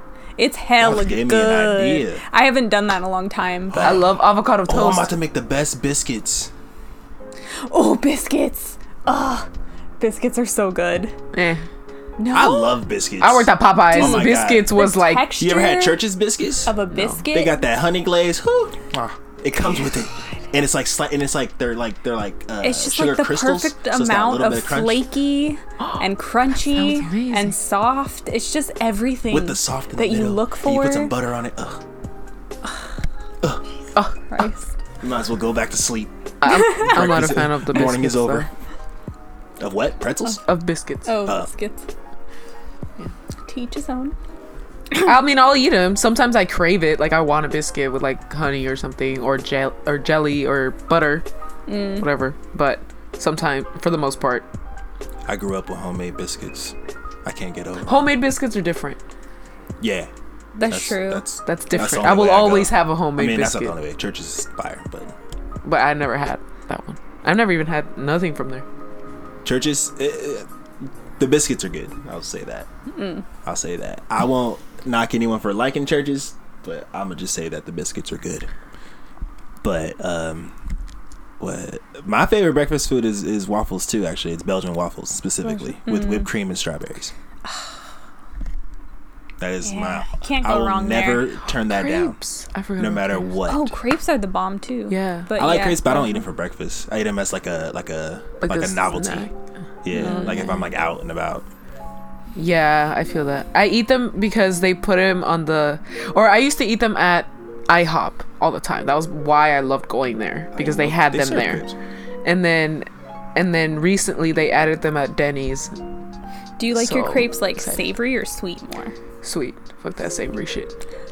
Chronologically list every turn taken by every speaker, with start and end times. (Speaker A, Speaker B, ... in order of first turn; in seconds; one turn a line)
Speaker A: 0.4-4.0
Speaker B: 0.8-2.2
Speaker B: 3.7-6.5
Speaker C: 3.8-5.1
Speaker A: 7.7-9.5
Speaker A: 10.0-11.2
Speaker C: 11.3-11.7
Speaker A: 12.2-12.8
Speaker B: 12.3-14.7
Speaker C: 13.2-15.3
Speaker A: 13.9-16.0
Speaker B: 15.4-16.8
Speaker A: 16.7-17.6
Speaker C: 16.9-17.2
Speaker B: 17.3-25.1
Speaker A: 19.6-20.1
Speaker A: 22.6-31.1
Speaker C: 25.8-27.6
Speaker B: 29.3-31.8
Speaker A: 34.3-34.7
Speaker B: 35.0-38.5
Speaker C: 36.4-38.5
Speaker A: 36.5-37.1
Speaker B: 39.6-40.4
Speaker C: 40.2-41.3
Speaker A: 41.1-41.9
Speaker A: 43.5-44.1
Speaker C: 44.9-51.2
Speaker A: 51.7-52.1
Speaker C: 51.9-54.5
Speaker B: 55.3-58.2
Speaker C: 57.9-59.0
Speaker B: 59.8-60.1
Speaker A: 60.6-61.3
Speaker B: 60.7-65.2
Speaker C: 61.5-63.8
Speaker C: 65.6-68.7
Speaker B: 69.4-70.5
Speaker B: 71.2-72.7
Speaker A: 73.0-73.2
Speaker B: 73.4-78.5
Speaker B: 79.6-80.5
Speaker B: 81.4-87.1
Speaker A: 85.8-86.3
Speaker B: 89.4-92.2
Speaker A: 89.6-91.3
Speaker C: 91.7-93.3
Speaker B: 92.8-93.8
Speaker A: 93.5-96.2
Speaker C: 94.9-95.3
Speaker B: 95.3-99.3
Speaker C: 98.4-99.3
Speaker B: 99.8-101.5
Speaker A: 99.9-100.6
Speaker C: 100.0-100.6
Speaker C: 102.4-111.7
Speaker B: 110.5-111.8
Speaker C: 112.2-115.8
Speaker A: 116.6-119.0
Speaker C: 116.7-117.9
Speaker C: 119.2-120.8